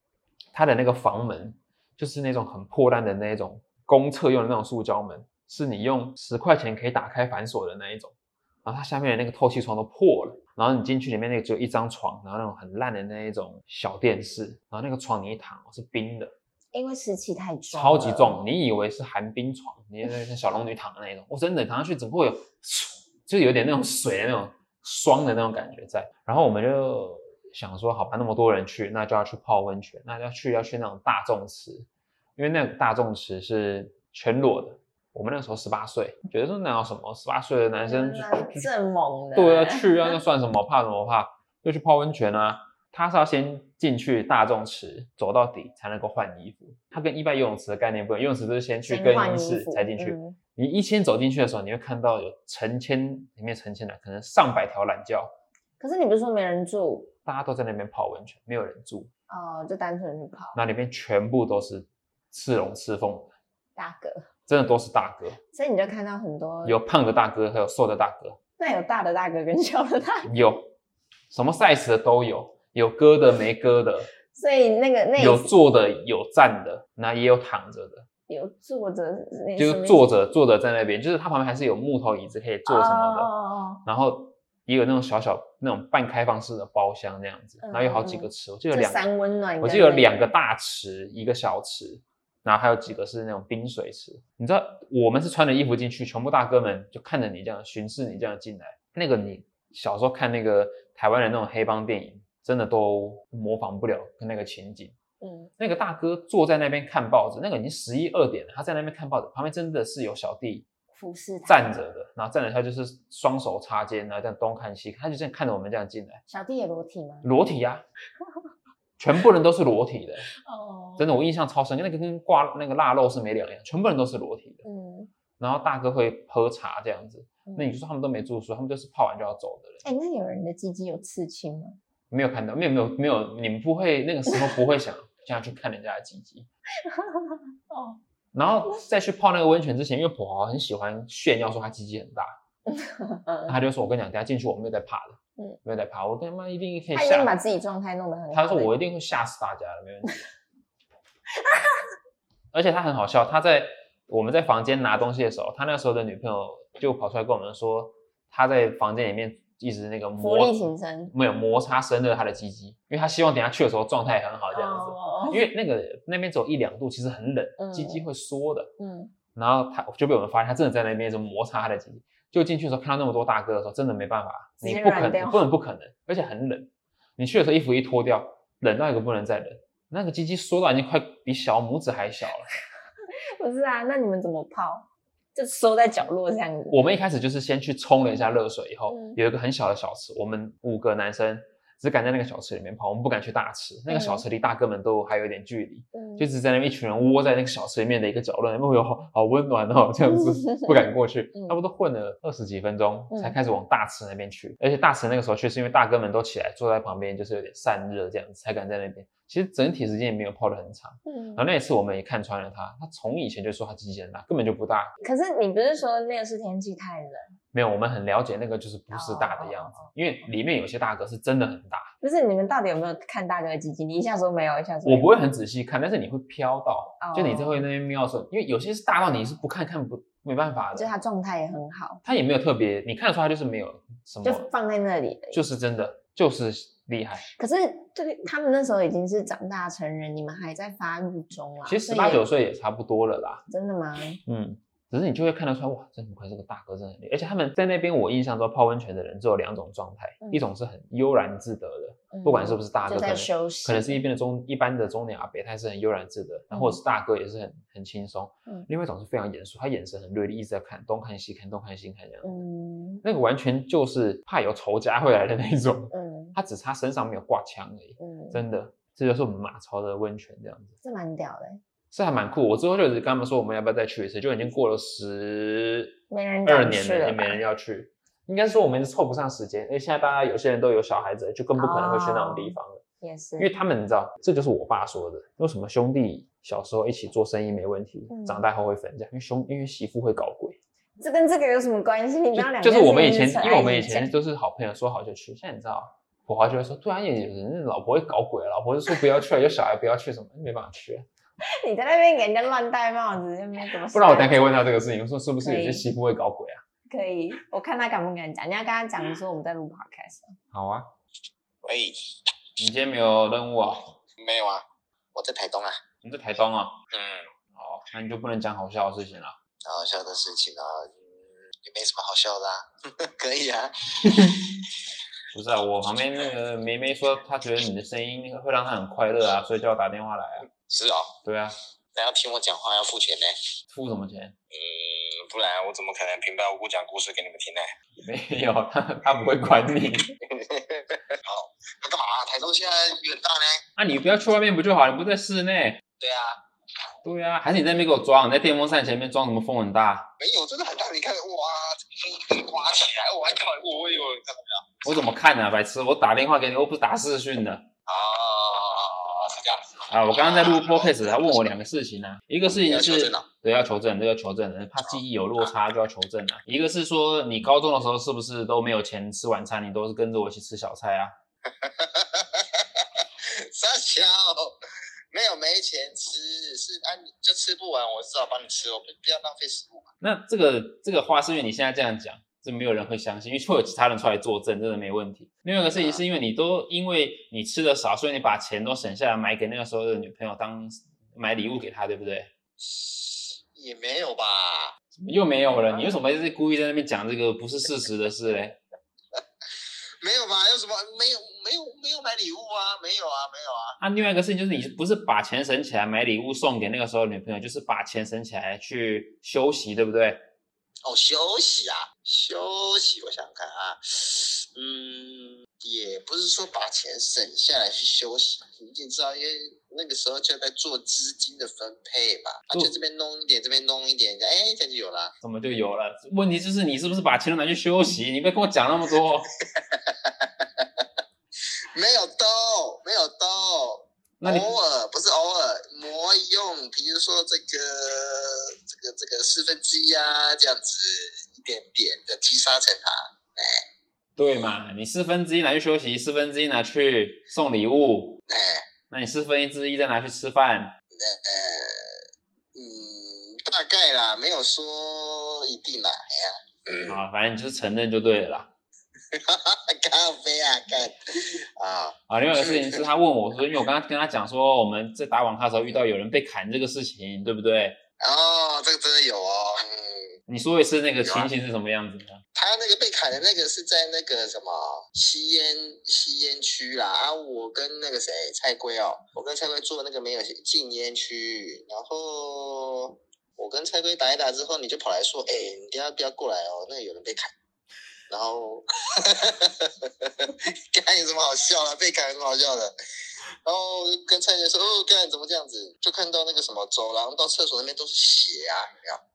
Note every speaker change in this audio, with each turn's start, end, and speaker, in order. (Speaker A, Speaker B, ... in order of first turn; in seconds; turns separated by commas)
Speaker A: 0.5-8.1, Speaker A: 8.6-16.3, Speaker B: 16.7-18.4, Speaker A: 17.7-31.9, Speaker A: 32.4-38.7, Speaker B: 37.8-40.2, Speaker A: 39.3-55.3, Speaker B: 48.9-50.4, Speaker B: 55.8-57.1, Speaker A: 57.2-59.1, Speaker B: 59.3-60.6, Speaker A: 60.5-63.3, Speaker B: 63.8-64.2, Speaker A: 64.5-65.4, Speaker B: 65.5-66.8, Speaker A: 66.6-68.4, Speaker B: 68.6-70.3, Speaker A: 70.2-70.7, Speaker A: 71.3-74.1, Speaker B: 74.3-75.5, Speaker A: 75.2-78.0, Speaker B: 78.3-80.1, Speaker A: 79.6-83.3, Speaker B: 82.7-83.8, Speaker A: 83.8-89.1, Speaker B: 87.6-90.3, Speaker A: 89.6-105.0, Speaker B: 105.2-105.5, Speaker A: 105.6-110.7, Speaker B: 110.9-111.7, Speaker A: 111.5-116.2, Speaker B: 116.3-117.3, Speaker A: 117.2-117.8, Speaker A: 119.0-120.3, Speaker B: 120.3-121.2, Speaker A: 121.0-124.6, Speaker B: 124.6-125.1, Speaker A: 125.4-129.8, Speaker B: 127.5-127.7, Speaker B: 129.8-131.8, Speaker A: 132.1-136.5, Speaker B: 136.8-138.0, Speaker A: 138.3-142.3, Speaker B: 142.7-143.5, Speaker A: 143.4-147.3, Speaker B: 146.9-148.7, Speaker A: 148.3-150.2, Speaker B: 151.4-151.8, Speaker A: 152.5-168.7, Speaker B: 160.2-161.1, Speaker B: 164.5-165.4, Speaker B: 167.6-168.0, Speaker B: 168.8-169.1, Speaker A: 169.3-182.5, Speaker B: 174.6-175.4, Speaker B: 183.3-186.8, Speaker A: 186.7-214.9, Speaker B: 188.9-189.2, Speaker B: 193.9-194.2, Speaker B: 195.9-196.3, Speaker B: 200.5-200.8, Speaker B: 211.1-211.4, Speaker B: 215.0-217.3, Speaker A: 217.5-221.9, Speaker B: 218.9-219.9, Speaker B: 222.0-225.1, Speaker A: 224.8-230.9, Speaker B: 227.0-227.6, Speaker B: 230.8-232.0, Speaker A: 232.0-234.5, Speaker B: 234.2-235.4, Speaker A: 235.3-237.3, Speaker B: 237.3-242.2, Speaker A: 241.7-243.4, Speaker B: 243.5-244.2, Speaker A: 244.2-262.3, Speaker B: 252.1-254.0, Speaker B: 256.5-256.8, Speaker B: 262.2-263.0, Speaker A: 263.0-270.8, Speaker B: 265.9-266.4, Speaker B: 268.0-268.4, Speaker B: 270.8-271.6, Speaker A: 271.9-282.8, Speaker B: 276.1-277.4, Speaker B: 281.6-283.5, Speaker A: 283.4-290.6, Speaker B: 288.1-288.4, Speaker B: 291.0-294.1, Speaker A: 292.3-301.1, Speaker B: 301.4-304.5, Speaker A: 303.9-306.6, Speaker B: 305.4-305.8, Speaker B: 306.9-310.4, Speaker A: 310.5-310.9, Speaker C: 311.6-312.1, Speaker A: 312.6-313.9, Speaker C: 314.2-315.8, Speaker A: 316.0-316.8, Speaker C: 316.9-317.3, Speaker A: 317.5-319.4, Speaker C: 319.6-321.0, Speaker C: 321.6-324.7, Speaker A: 325.3-330.5, Speaker C: 330.5-331.1, Speaker A: 331.2-331.5, Speaker C: 331.9-333.3, Speaker A: 333.7-334.3, Speaker C: 334.5-337.7, Speaker A: 338.0-340.1, Speaker C: 340.3-343.6, Speaker A: 343.8-345.8, Speaker C: 346.0-346.4, Speaker A: 347.0-350.1, Speaker C: 350.2-355.1, Speaker A: 354.8-357.6, Speaker C: 357.9-361.5, Speaker A: 359.9-371.1, Speaker C: 362.6-363.2, Speaker C: 364.8-365.5, Speaker C: 371.5-374.6, Speaker C: 375.1-379.9, Speaker A: 380.0-392.3, Speaker C: 385.7-386.0, Speaker C: 392.6-394.7, Speaker A: 394.9-398.6, Speaker C: 400.0-403.8, Speaker A: 403.8-410.2, Speaker C: 410.8-425.1, Speaker A: 425.2-429.3, Speaker C: 429.4-430.9, Speaker C: 431.7-443.6, Speaker A: 434.2-434.5, Speaker A: 444.1-448.2, Speaker C: 448.3-448.7, Speaker A: 448.9-450.7, Speaker C: 450.9-452.0, Speaker C: 452.5-457.0, Speaker A: 456.9-458.5, Speaker C: 459.1-462.8, Speaker A: 462.1-467.8, Speaker C: 468.0-470.1, Speaker A: 470.3-472.2, Speaker C: 471.0-471.3, Speaker C: 472.4-487.3, Speaker C: 488.1-492.7, Speaker C: 493.4-499.0